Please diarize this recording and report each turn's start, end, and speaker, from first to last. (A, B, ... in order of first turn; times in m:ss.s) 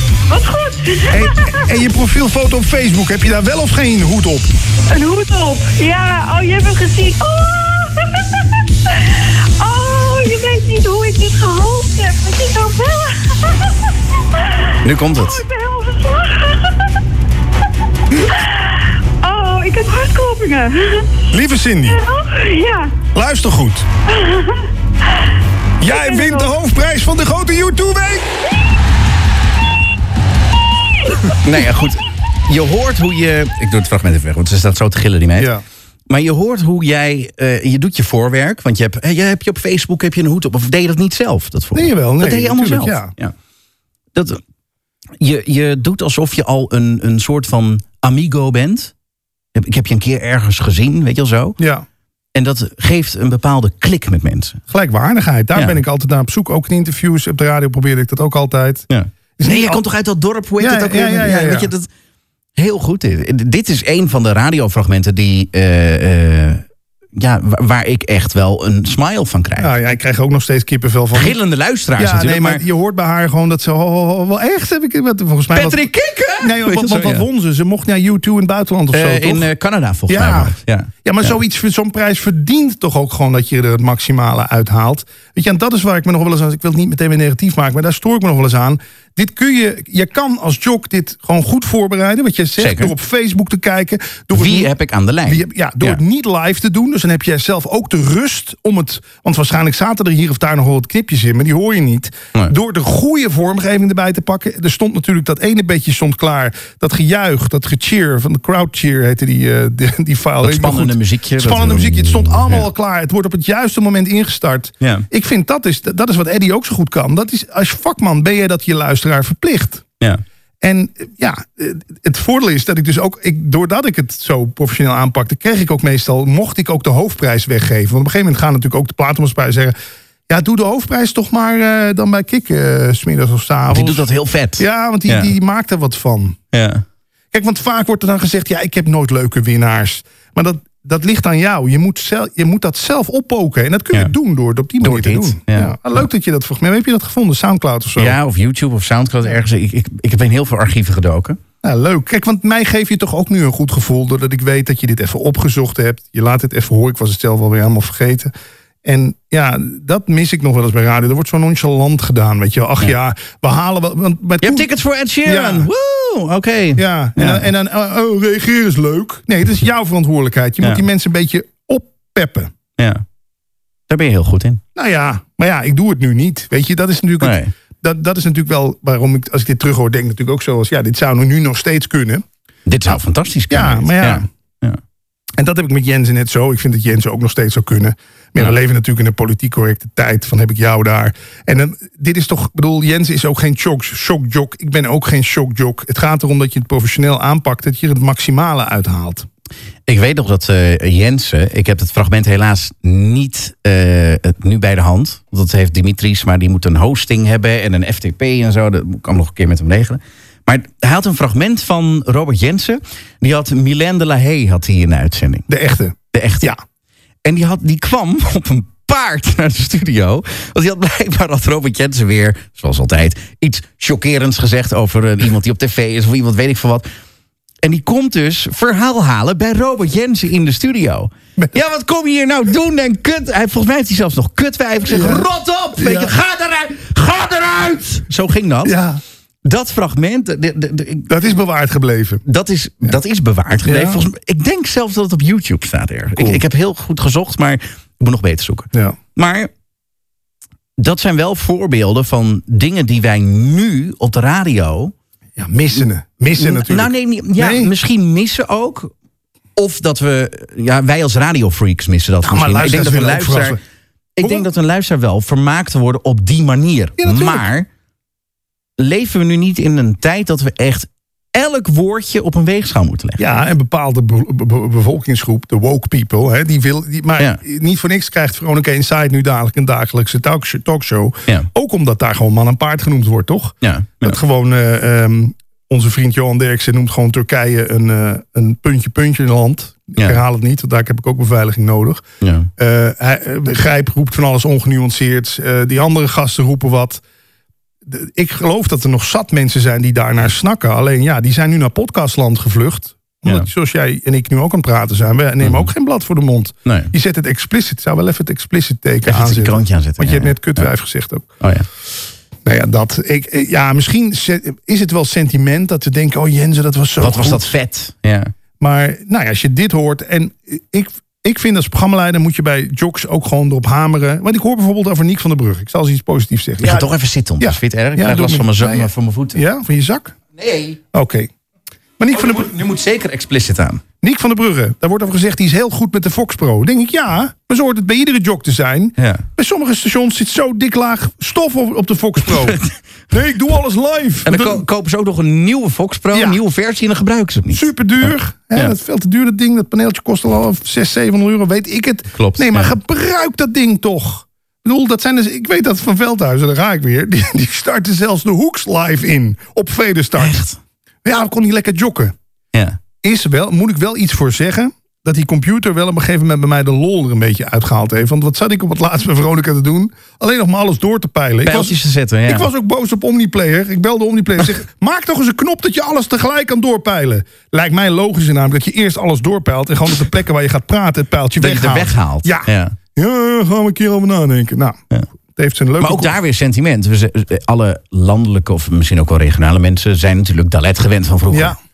0:00.3-0:01.8 A
0:01.1-0:04.5 B
0:04.9-0:17.0 A
0:14.8-0:15.4 C
0:18.1-0:21.2 A
0:21.3-0:22.0 B
0:21.8-0:23.0 A
0:23.1-0:23.9 B
0:24.1-0:25.3 A
0:25.8-0:28.3 B
0:25.8-0:26.5 A
0:31.4-0:35.5 C
0:35.4-0:35.6 B
0:36.1-0:43.3 C
0:41.7-0:43.1 B
0:44.1-0:44.4 C
0:45.2-0:48.9 C
0:49.5-0:51.6 C
0:51.6-0:51.8 B
0:52.3-0:54.6 C
0:54.7-0:58.8 B
0:58.9-1:01.9 C
0:59.4-0:59.8 B
1:00.6-1:01.7 B
1:02.6-1:06.6 C
1:07.2-1:09.7 C
1:09.6-1:11.4 B
1:11.1-1:12.6 C
1:12.0-1:15.9 B
1:15.5-1:17.2 C
1:16.4-1:19.5 B
1:18.9-1:21.3 C
1:20.1-1:34.7 B
1:32.6-1:32.9 C
1:34.3-1:36.0 C
1:35.2-1:59.8 B
1:50.4-1:52.7 C
1:54.8-1:55.1 C
2:00.6-2:09.7 B
2:10.3-2:14.0 B
2:13.7-2:15.3 C
2:14.6-2:16.4 B
2:16.5-2:16.8 C
2:17.3-2:28.2 B
2:24.8-2:25.8 C
2:28.0-2:31.4 C
2:31.6-2:38.3 B
2:38.8-2:44.7 B
2:44.4-2:47.4 C
2:45.2-2:45.7 B
2:46.8-2:52.5 B
2:52.8-2:53.0 C
2:53.9-2:54.6 C
2:54.7-3:02.2 B
2:57.2-2:57.5 C
3:02.7-3:04.8 C
3:03.5-3:04.2 B
3:05.4-3:19.3 B
3:19.9-3:35.5 C
3:35.5-3:36.6 B
3:36.1-3:36.5 C
3:37.2-3:46.9 C
3:47.6-3:58.8 C
3:54.9-3:55.2 B
3:55.8-3:56.1 B
3:58.6-3:59.0 B
3:59.4-4:01.1 C
4:01.1-4:02.2 B
4:02.2-4:09.5 C
4:03.6-4:04.0 B
4:06.2-4:06.4 B
4:10.8-4:14.9 C
4:15.4-4:17.7 B
4:16.4-4:18.9 C
4:19.6-4:23.6 C
4:22.2-4:23.6 B
4:24.2-4:27.7 C
4:24.2-4:24.4 B
4:27.0-4:27.4 B
4:28.8-4:33.2 C
4:33.2-4:52.0 B
4:43.6-4:44.2 C
4:52.2-4:52.5 C
4:52.6-4:57.0 B
4:57.8-5:11.3 B
5:05.4-5:05.7 C
5:06.6-5:06.9 C
5:09.0-5:10.7 C
5:11.4-5:11.7 C
5:12.4-5:17.5 B
5:17.0-5:18.3 C
5:18.6-5:30.2 B
5:26.6-5:29.4 C
5:30.4-5:30.8 C
5:30.9-5:31.3 B
5:32.0-5:32.5 B
5:32.1-5:33.8 C
5:34.0-5:42.6 B
5:39.0-5:39.2 C
5:42.4-5:42.7 C
5:43.1-5:44.6 B
5:44.2-5:48.8 C
5:46.1-5:46.4 B
5:47.5-6:00.4 B
5:52.1-5:52.8 C
6:00.2-6:00.6 C
6:01.0-6:02.1 B
6:02.5-6:02.8 C
6:03.0-6:11.8 B
6:11.4-6:12.5 C
6:12.3-6:24.8 B
6:21.4-6:22.8 C
6:25.3-6:26.2 B
6:25.8-6:31.6 C
6:31.3-6:31.6 B